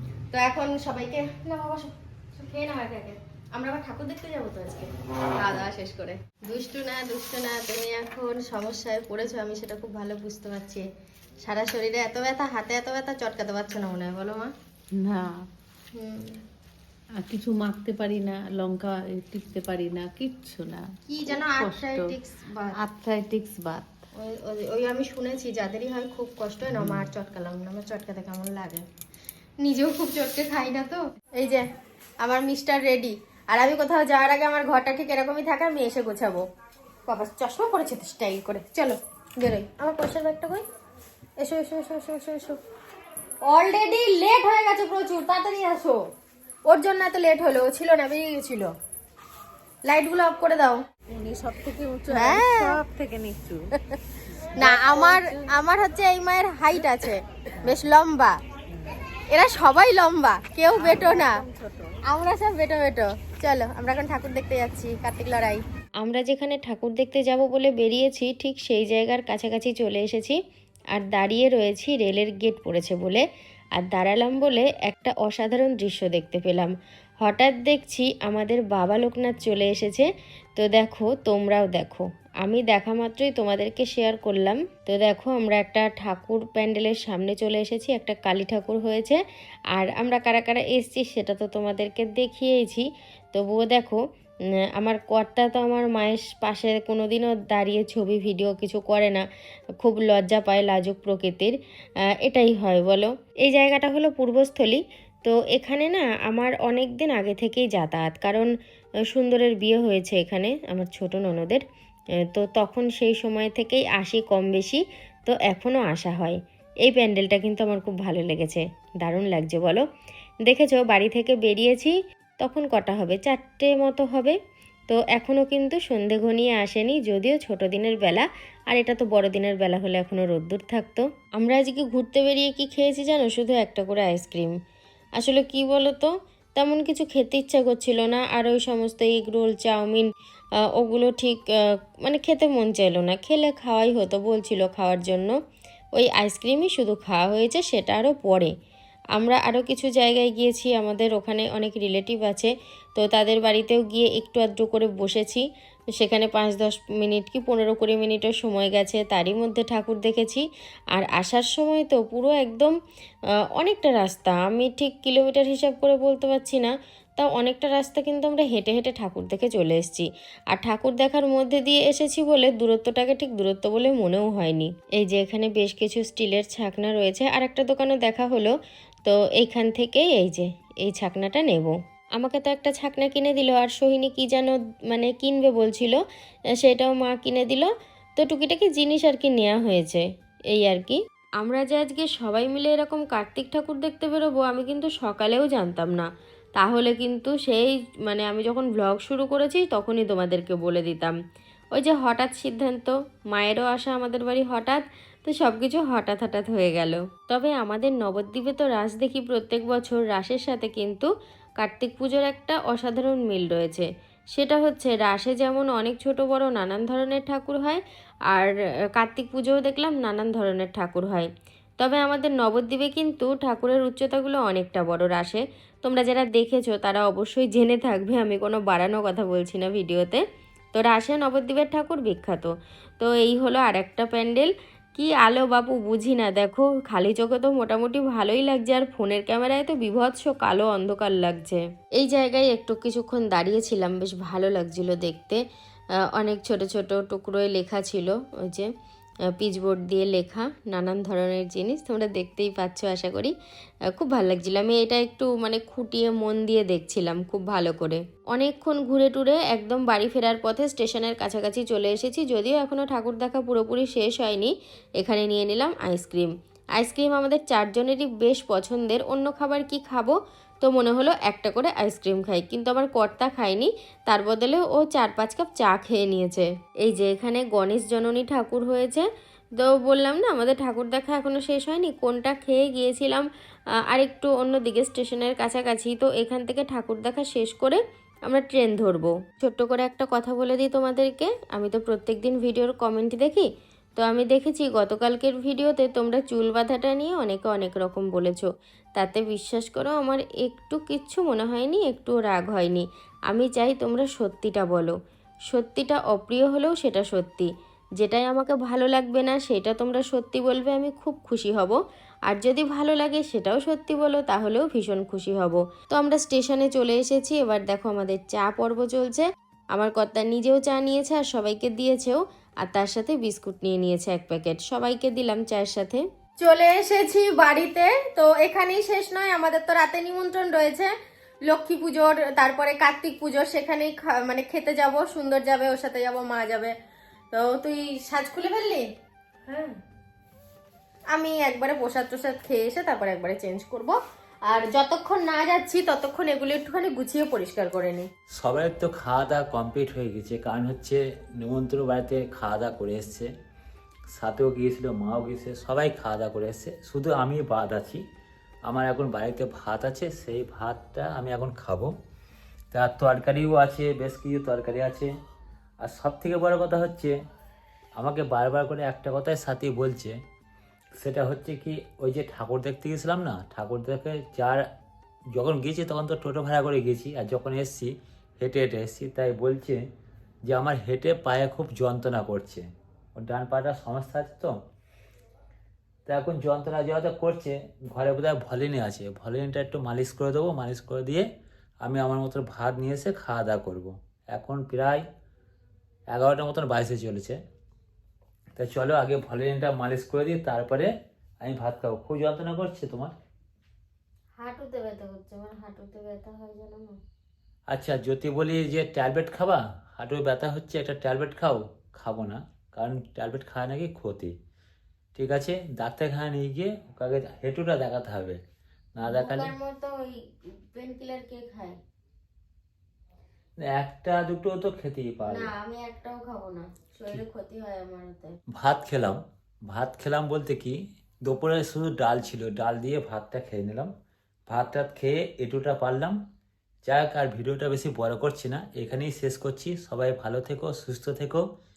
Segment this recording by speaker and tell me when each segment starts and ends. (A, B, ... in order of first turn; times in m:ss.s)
0:00.3-0:10.9 A
0:11.4-0:14.5 A
0:14.9-0:15.5 B
0:15.9-0:16.4 A
0:17.2-0:22.2 B
0:21.1-0:22.8 A
0:22.8-0:23.9 B
0:24.2-0:28.8 A
0:26.8-0:27.0 B
0:29.6-0:31.7 A
0:32.2-0:36.5 A
0:37.1-0:40.6 A
0:41.4-0:42.6 A
0:43.4-0:46.0 A
0:46.7-0:48.7 A
0:49.9-0:50.8 A
0:51.1-0:53.7 B
0:52.1-0:52.8 A
0:54.4-0:55.5 B
0:54.6-0:58.4 A
0:59.3-1:01.4 A
1:00.8-1:02.0 B
1:02.0-1:10.4 A
1:10.9-1:13.2 A
1:13.8-1:29.2 A
1:29.8-1:34.0 A
1:34.8-1:39.2 A
1:39.8-1:41.6 A
1:42.2-1:48.5 A
1:49.1-1:51.6 A
1:52.3-1:59.8 A
2:00.5-2:04.4 A
2:04.9-2:14.5 A
2:15.2-2:20.1 A
2:20.8-2:25.3 A
2:26.0-2:28.5 A
2:29.2-2:35.4 A
2:36.0-2:40.4 A
2:41.0-2:42.8 A
2:43.6-2:58.5 A
2:59.1-3:06.0 A
3:06.6-3:16.1 A
3:16.6-3:21.2 A
3:21.8-3:31.1 A
3:31.6-3:37.8 A
3:38.3-3:41.3 A
3:41.8-3:50.2 A
3:50.8-3:52.5 A
3:53.0-4:05.4 A
4:06.2-4:08.7 A
4:09.4-4:13.3 A
4:14.0-4:39.1 A
4:39.6-4:43.3 A
4:43.9-4:53.5 A
4:54.0-4:58.5 A
4:59.0-5:04.9 A
5:05.5-5:11.8 A
5:12.3-5:30.9 A
5:31.5-5:36.8 A
5:37.3-5:38.9 A
5:39.5-5:39.8 A
5:41.1-5:48.1 A
5:48.4-5:53.3 C
5:54.2-5:58.0 C
5:58.7-6:01.9 C
6:02.7-6:05.1 C
6:05.8-6:07.2 C
6:08.0-6:10.2 C
6:11.0-6:14.6 C
6:15.4-6:19.8 C
6:20.5-6:24.6 C
6:26.1-6:31.3 C
6:31.8-6:35.0 C
6:36.1-6:37.4 C
6:38.6-6:40.9 C
6:41.4-6:43.1 C
6:44.4-6:47.0 A
6:47.7-6:54.3 C
6:55.2-6:58.4 C
6:59.0-6:59.5 C
6:59.1-7:00.2 A
7:00.8-7:01.8 A
7:03.6-7:05.5 C
7:05.2-7:08.4 A
7:08.6-7:13.9 C
7:14.5-7:16.2 C
7:16.9-7:21.4 C